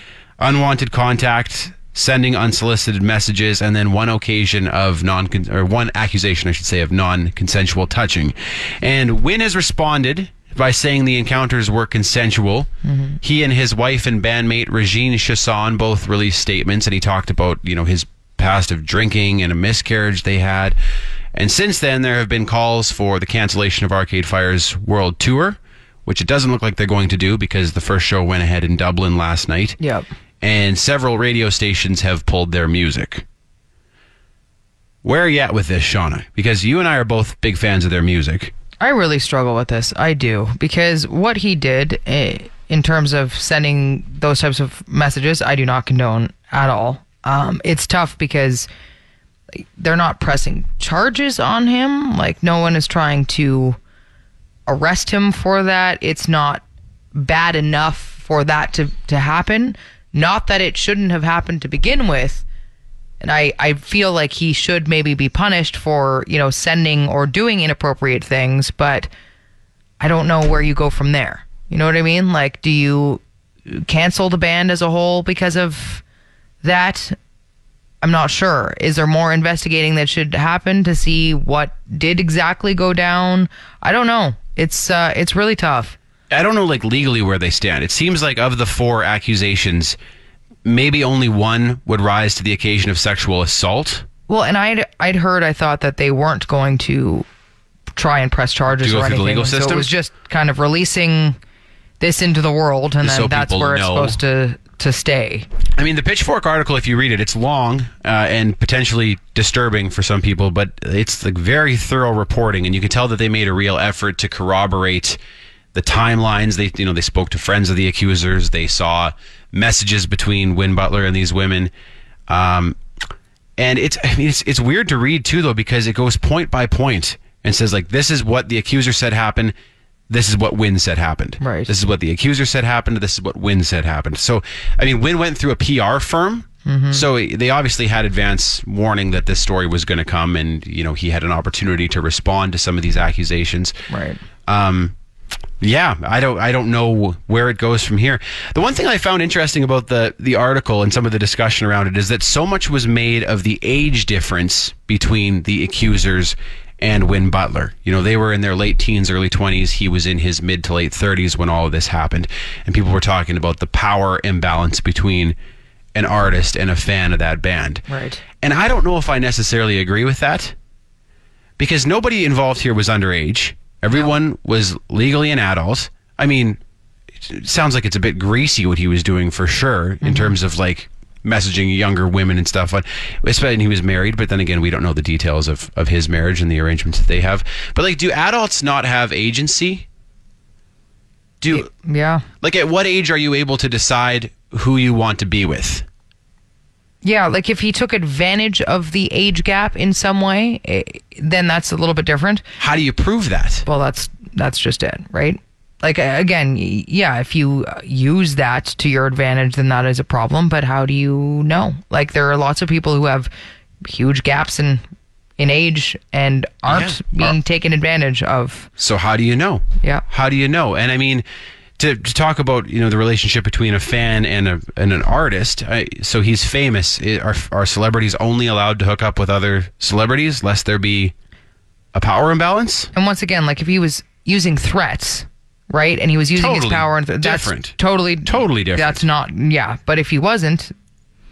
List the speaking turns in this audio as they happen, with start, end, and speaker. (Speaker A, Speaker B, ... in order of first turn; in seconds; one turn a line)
Speaker A: 0.4-12.7
Speaker B: 12.8-13.2
Speaker A: 13.2-20.8
Speaker A: 21.3-29.8
Speaker B: 29.8-30.1
Speaker A: 30.4-33.2
Speaker A: 35.0-38.5
Speaker B: 38.8-48.7
Speaker B: 49.5-53.8
Speaker B: 54.7-56.6
Speaker B: 57.1-62.4
Speaker B: 63.2-69.1
Speaker B: 70.0-76.0
Speaker B: 76.6-77.2
Speaker B: 78.0-86.0
Speaker A: 86.3-90.0
Speaker A: 90.6-94.0
Speaker B: 94.3-97.2
Speaker B: 97.9-101.4
Speaker A: 98.7-99.9
Speaker B: 102.0-105.5
Speaker A: 103.0-104.2
Speaker A: 105.8-115.2
Speaker A: 115.7-121.7
Speaker A: 122.3-122.8
Speaker A: 123.6-129.5
Speaker A: 130.1-143.8
Speaker B: 131.4-131.7
Speaker B: 136.7-137.0
Speaker B: 143.9-144.2
Speaker A: 144.5-144.9
Speaker A: 145.6-165.3
Speaker A: 165.9-167.8
Speaker B: 167.9-168.2
Speaker A: 168.4-170.5
Speaker A: 171.6-176.6
Speaker A: 177.2-189.8
Speaker B: 180.0-180.4
Speaker A: 191.4-191.7
Speaker B: 191.5-192.2
Speaker A: 192.4-195.8
Speaker B: 197.0-202.4
Speaker A: 202.6-203.7
Speaker B: 203.7-213.3
Speaker B: 213.8-214.8
Speaker B: 215.4-218.7
Speaker A: 216.7-217.3
Speaker A: 218.8-221.2
Speaker A: 221.8-231.1
Speaker A: 231.9-232.9
Speaker B: 232.9-240.7
Speaker A: 236.3-239.0